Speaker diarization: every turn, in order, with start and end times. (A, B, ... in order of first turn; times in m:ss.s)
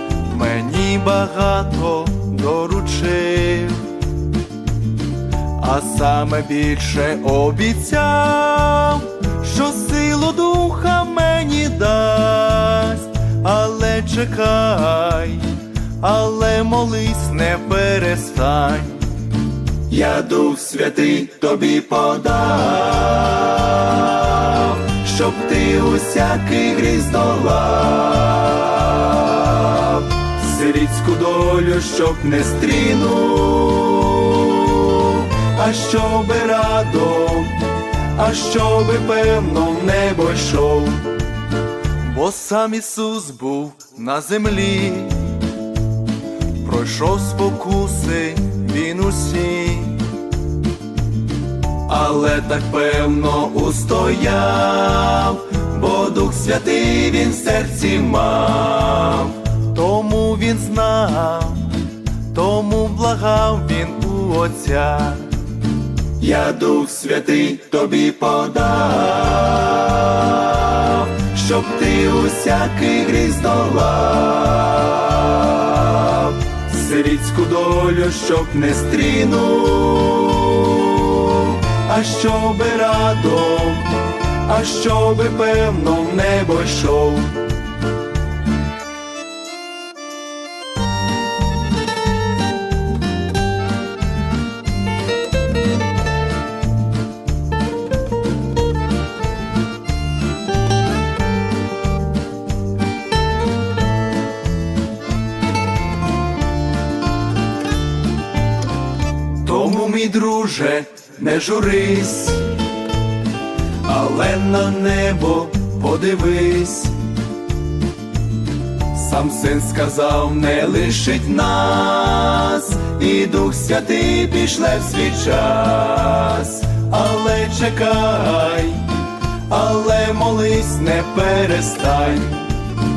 0:00.2-0:04.0 A
0:05.6-0:19.2 A
0:19.9-0:41.2 A
0:42.0-0:45.4 A
0:46.6-0:50.1 A
0:51.8-1:05.4 A
1:06.2-1:27.4 A
1:49.4-1:52.6 A
1:53.8-1:57.0 A
1:58.9-2:12.5 A